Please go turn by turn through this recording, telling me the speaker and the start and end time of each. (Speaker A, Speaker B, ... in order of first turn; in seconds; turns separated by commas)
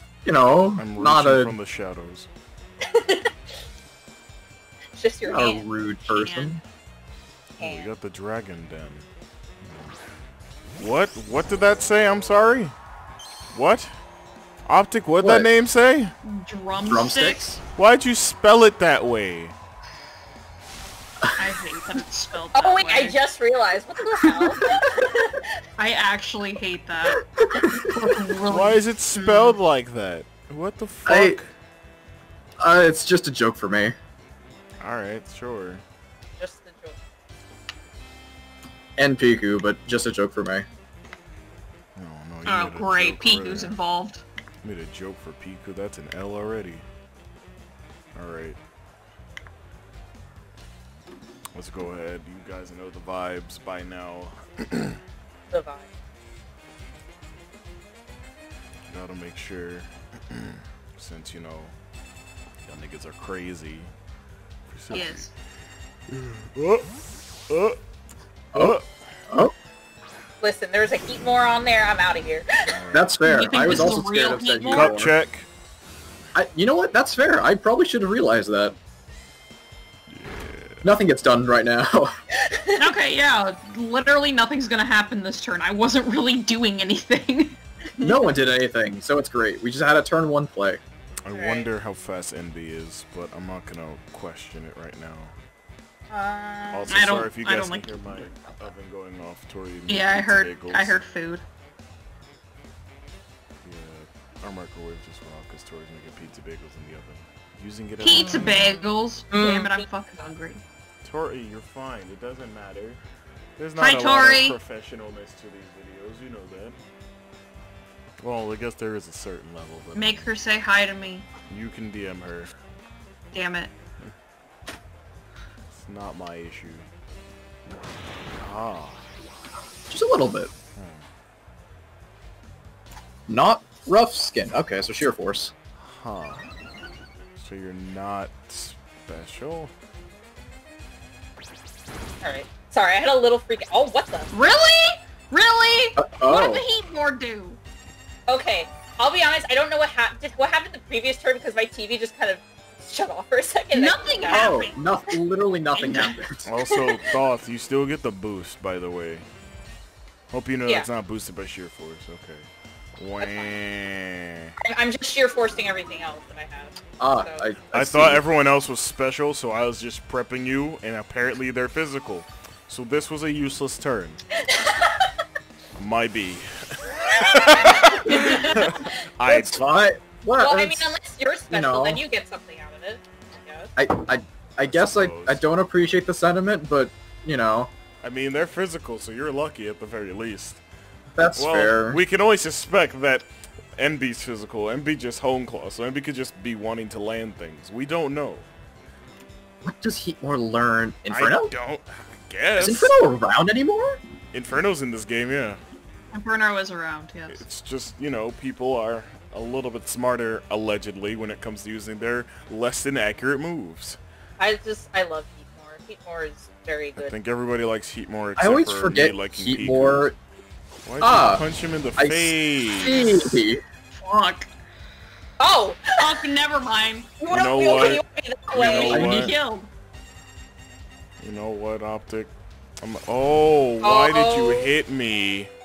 Speaker A: 0.2-1.5, Speaker B: 0.8-2.3, Speaker C: 2.8-3.3, Speaker C: 4.9-5.6, Speaker A: 5.2-6.6, Speaker D: 6.1-6.6, Speaker B: 7.6-9.1, Speaker C: 7.6-7.9, Speaker B: 9.6-10.0, Speaker B: 10.8-12.7, Speaker B: 13.5-13.9, Speaker B: 14.7-16.1, Speaker A: 15.2-15.5, Speaker D: 16.2-17.4, Speaker A: 16.9-17.6, Speaker B: 17.8-19.5, Speaker D: 21.4-23.2, Speaker C: 22.5-25.4, Speaker A: 24.2-24.5, Speaker D: 25.8-29.5, Speaker A: 27.4-28.2, Speaker B: 28.5-31.5, Speaker A: 31.1-31.4, Speaker A: 32.6-33.9, Speaker B: 34.8-35.8, Speaker C: 36.4-37.0, Speaker A: 39.0-40.6, Speaker B: 41.9-43.8, Speaker D: 42.5-44.2, Speaker B: 44.6-46.8, Speaker B: 48.1-48.6, Speaker B: 51.5-55.0, Speaker C: 55.5-55.9, Speaker B: 58.9-61.8, Speaker B: 62.6-63.9, Speaker B: 64.7-65.3, Speaker D: 64.9-65.3, Speaker B: 66.1-66.9, Speaker B: 67.5-67.8, Speaker B: 68.5-68.8, Speaker C: 70.4-72.5, Speaker B: 72.6-73.9, Speaker A: 72.9-75.1, Speaker D: 73.2-74.9, Speaker B: 74.7-75.5, Speaker A: 76.3-78.7, Speaker B: 80.1-80.9, Speaker A: 80.8-82.1, Speaker C: 82.4-82.8, Speaker D: 82.8-87.6, Speaker C: 87.9-88.2, Speaker A: 88.0-90.8, Speaker B: 91.3-95.3, Speaker C: 91.3-91.7, Speaker C: 96.1-97.2, Speaker B: 96.7-101.0, Speaker D: 96.9-98.6, Speaker D: 99.9-101.4, Speaker B: 103.6-108.7, Speaker D: 108.0-110.6, Speaker C: 109.3-109.9, Speaker B: 111.0-113.0, Speaker B: 113.6-116.8, Speaker D: 113.8-114.5, Speaker B: 118.2-120.3, Speaker D: 119.9-121.2, Speaker B: 121.5-122.5, Speaker D: 123.3-123.7, Speaker B: 125.7-126.9, Speaker B: 128.4-129.1, Speaker A: 129.9-130.5, Speaker B: 130.8-131.1, Speaker A: 133.3-135.5, Speaker B: 135.8-136.4, Speaker B: 137.4-139.7, Speaker C: 142.2-144.3, Speaker D: 144.3-147.6, Speaker A: 146.0-146.6, Speaker C: 148.3-154.7, Speaker D: 153.7-154.8, Speaker A: 154.3-156.4, Speaker D: 155.8-156.2, Speaker B: 156.4-159.2, Speaker C: 156.7-157.1, Speaker B: 160.3-162.5, Speaker B: 163.0-164.5, Speaker C: 163.2-163.5, Speaker C: 164.6-167.5, Speaker A: 167.0-168.2, Speaker B: 167.7-174.2, Speaker C: 174.4-175.1, Speaker B: 175.8-179.7, Speaker C: 177.0-178.9, Speaker A: 179.2-180.9, Speaker C: 180.4-183.7, Speaker A: 181.5-182.0, Speaker A: 183.8-187.7, Speaker B: 184.6-185.4, Speaker B: 188.0-190.6, Speaker A: 191.2-192.0, Speaker B: 191.3-198.5, Speaker A: 199.6-201.5, Speaker B: 201.1-202.9, Speaker A: 202.6-204.0, Speaker B: 204.3-205.6, Speaker D: 206.1-207.4, Speaker B: 207.3-214.0, Speaker C: 214.4-217.1, Speaker B: 216.9-220.1, Speaker A: 218.4-220.2, Speaker B: 220.8-223.4, Speaker A: 221.0-221.4, Speaker A: 222.0-223.6, Speaker D: 224.0-224.5, Speaker C: 225.4-226.1, Speaker D: 226.0-227.1, Speaker C: 227.2-229.0, Speaker B: 227.3-229.3, Speaker D: 228.6-229.7, Speaker A: 228.8-229.3, Speaker B: 231.2-235.5, Speaker C: 233.8-234.7